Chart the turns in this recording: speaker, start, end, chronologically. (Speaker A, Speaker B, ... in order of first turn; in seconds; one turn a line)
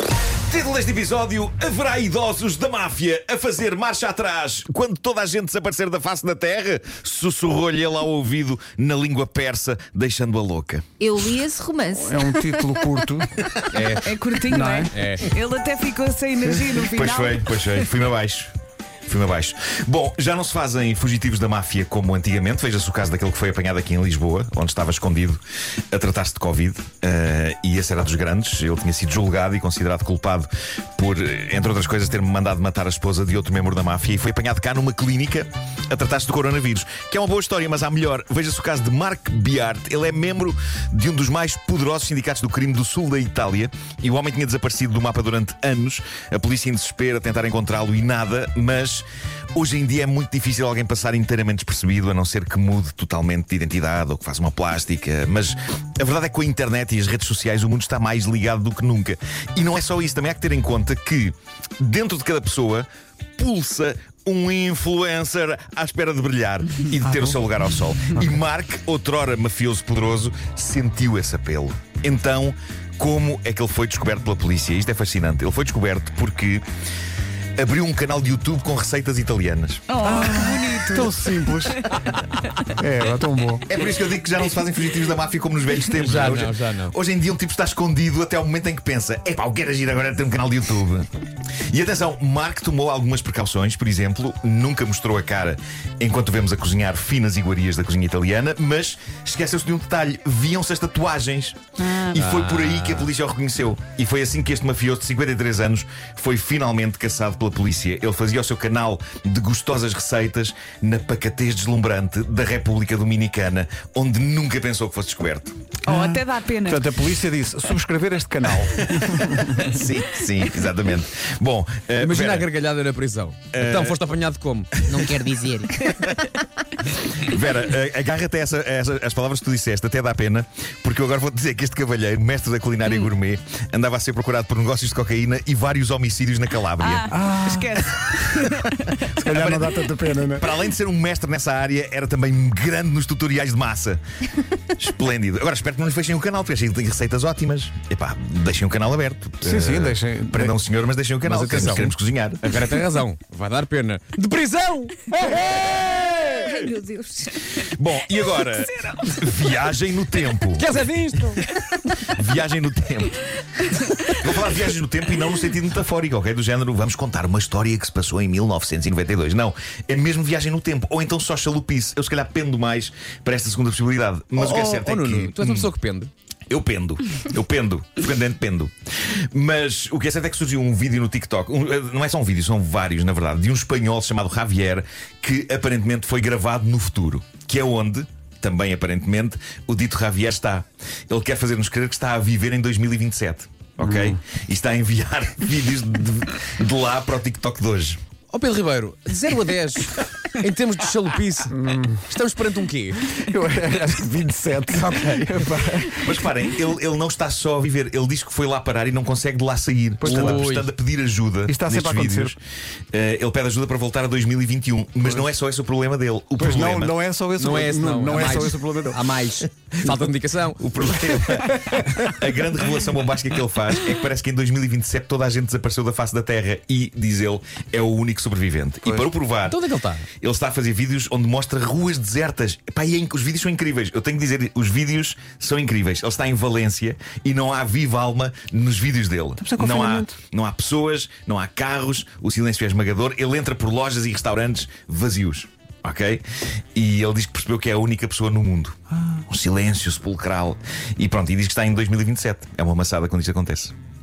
Speaker A: 0.5-10.8
Speaker B: 11.0-12.8
Speaker C: 11.9-13.3
Speaker D: 13.7-14.2
Speaker E: 14.0-17.8
Speaker C: 14.5-14.9
Speaker D: 14.9-15.3
Speaker A: 16.7-18.5
Speaker A: 19.1-25.4
Speaker A: 25.9-76.6
Speaker C: 67.0-67.3
Speaker A: 77.6-79.8
Speaker E: 79.9-81.8
Speaker C: 80.0-82.1
Speaker C: 82.6-83.7
Speaker A: 83.7-91.1
Speaker D: 85.9-86.9
Speaker A: 91.7-115.7
Speaker D: 102.1-103.1
Speaker E: 115.8-116.9
Speaker C: 115.8-119.6
Speaker A: 118.6-122.5
Speaker D: 122.0-125.9
Speaker A: 123.5-124.0
Speaker A: 124.9-125.3
Speaker A: 126.9-137.1
Speaker E: 136.8-139.0
Speaker C: 137.1-138.2
Speaker C: 139.0-140.5
Speaker A: 139.2-139.8
Speaker A: 140.4-152.8
Speaker C: 149.4-150.6
Speaker D: 151.2-156.2
Speaker B: 156.1-157.5
Speaker A: 157.6-175.7
Speaker D: 160.5-161.5
Speaker D: 174.3-176.1
Speaker A: 176.5-198.0
Speaker C: 193.8-194.2
Speaker D: 198.3-203.0
Speaker C: 201.5-202.1
Speaker C: 203.1-206.2
Speaker D: 204.7-205.5
Speaker A: 205.9-212.4
Speaker C: 210.0-210.4
Speaker D: 210.0-210.7
Speaker C: 211.5-212.3
Speaker A: 212.9-217.0
Speaker C: 215.0-215.3
Speaker C: 216.4-219.0
Speaker D: 217.4-221.5
Speaker A: 220.5-229.6
Speaker C: 228.8-229.1
Speaker D: 229.4-230.1
Speaker A: 230.2-253.7
Speaker C: 239.4-240.2